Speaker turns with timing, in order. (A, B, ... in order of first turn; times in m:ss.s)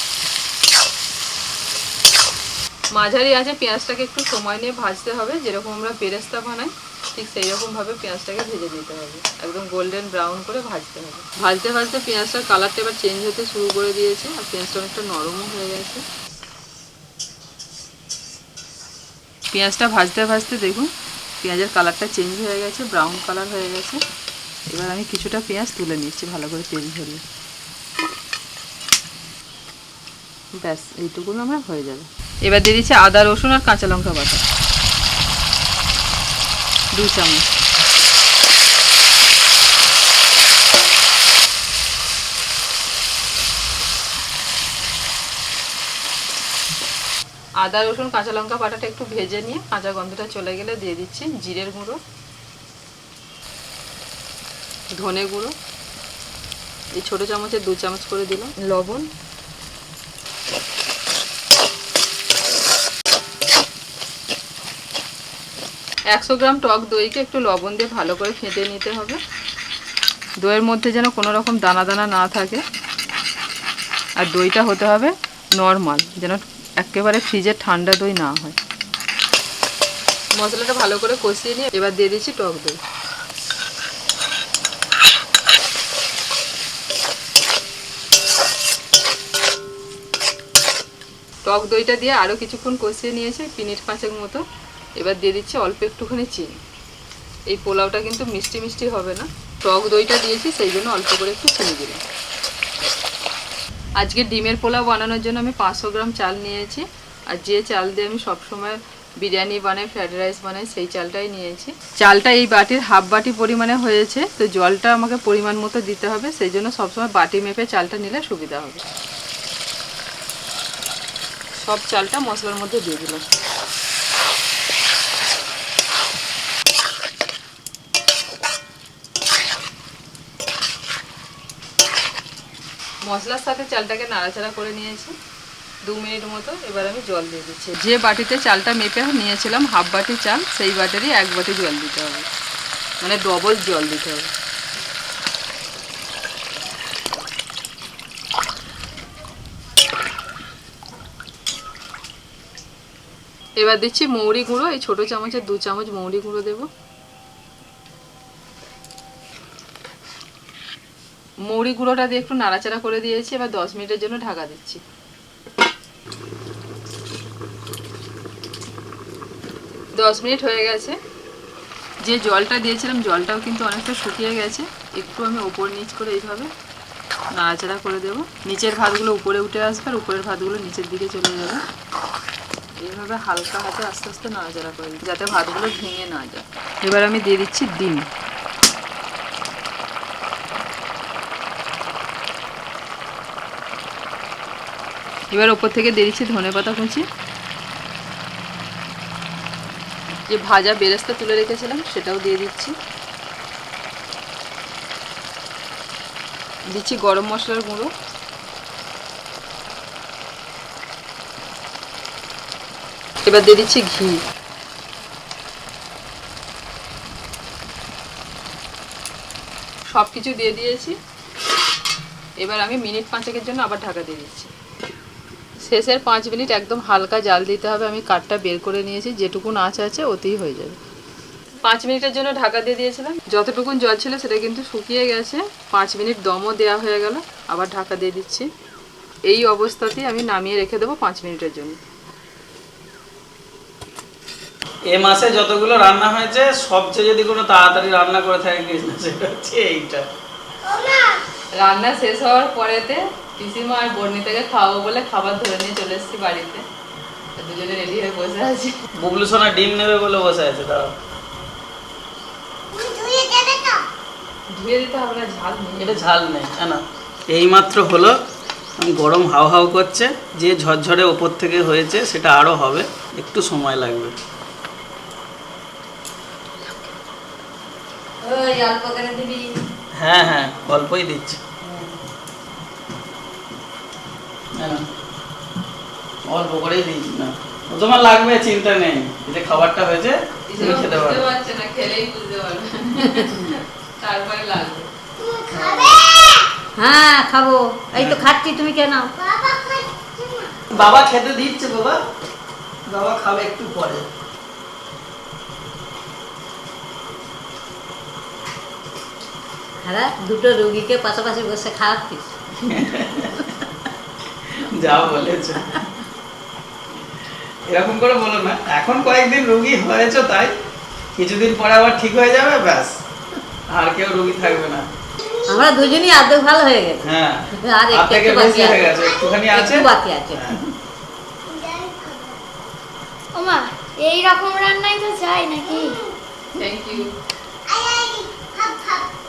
0:02.9-0:16.0 A
0:19.5-0:20.9 A
0:21.4-0:24.0 A
0:24.7-0:27.2 A
0:30.5-0:34.4 A
0:36.9-0:37.5 A
0:47.6-0:52.0 A
0:55.0-0:55.5 A
0:56.9-0:59.1 A
1:06.1-1:09.2 A
1:10.4-1:12.6 A
1:14.2-1:18.6 A
1:20.4-1:22.8 A
1:31.4-1:34.4 A
1:35.0-1:36.6 A
1:37.5-1:42.0 A
1:44.0-1:58.8 A
2:01.6-2:03.3 A
2:13.0-2:15.1 A
2:15.8-2:22.3 A
2:23.0-2:24.3 A
2:33.6-2:36.7 A
2:41.5-2:44.8 A
2:50.0-2:51.0 A
2:52.0-2:56.5 A
2:57.3-3:01.6 A
3:02.8-3:08.1 A
3:15.3-3:17.0 A
3:20.3-3:22.7 A
3:26.7-3:27.9 A
3:33.2-3:34.2 A
3:39.9-3:41.0 A
3:42.4-3:44.5 A
3:45.6-3:50.8 A
3:51.6-3:58.5 A
3:59.3-4:01.8 A
4:04.9-4:10.0 B
4:10.7-4:11.2 C
4:11.6-4:16.6 A
4:17.4-4:18.7 A
4:19.0-4:20.9 B
4:22.7-4:23.8 C
4:24.5-4:26.0 A
4:25.8-4:28.2 B
4:28.8-4:34.1 B
4:38.2-4:39.4 D
4:40.0-4:41.4 B
4:44.6-4:44.8 B
4:46.3-4:51.3 B
4:50.5-4:54.9 A
4:55.2-4:56.5 C
4:55.5-4:56.0 D
4:56.8-4:59.1 D
4:57.9-4:58.2 B
4:59.1-5:00.6 C
5:00.7-5:02.0 B
5:02.9-5:04.0 B
5:09.8-5:12.3 D
5:12.6-5:13.6 B
5:14.5-5:15.9 B
5:17.7-5:20.5 B
5:21.2-5:22.9 B
5:23.7-5:24.8 B
5:25.5-5:30.5 D
5:27.0-5:30.7 B
5:31.4-5:32.4 C
5:33.3-5:36.0 C
5:36.6-5:37.1 A
5:37.7-5:39.0 C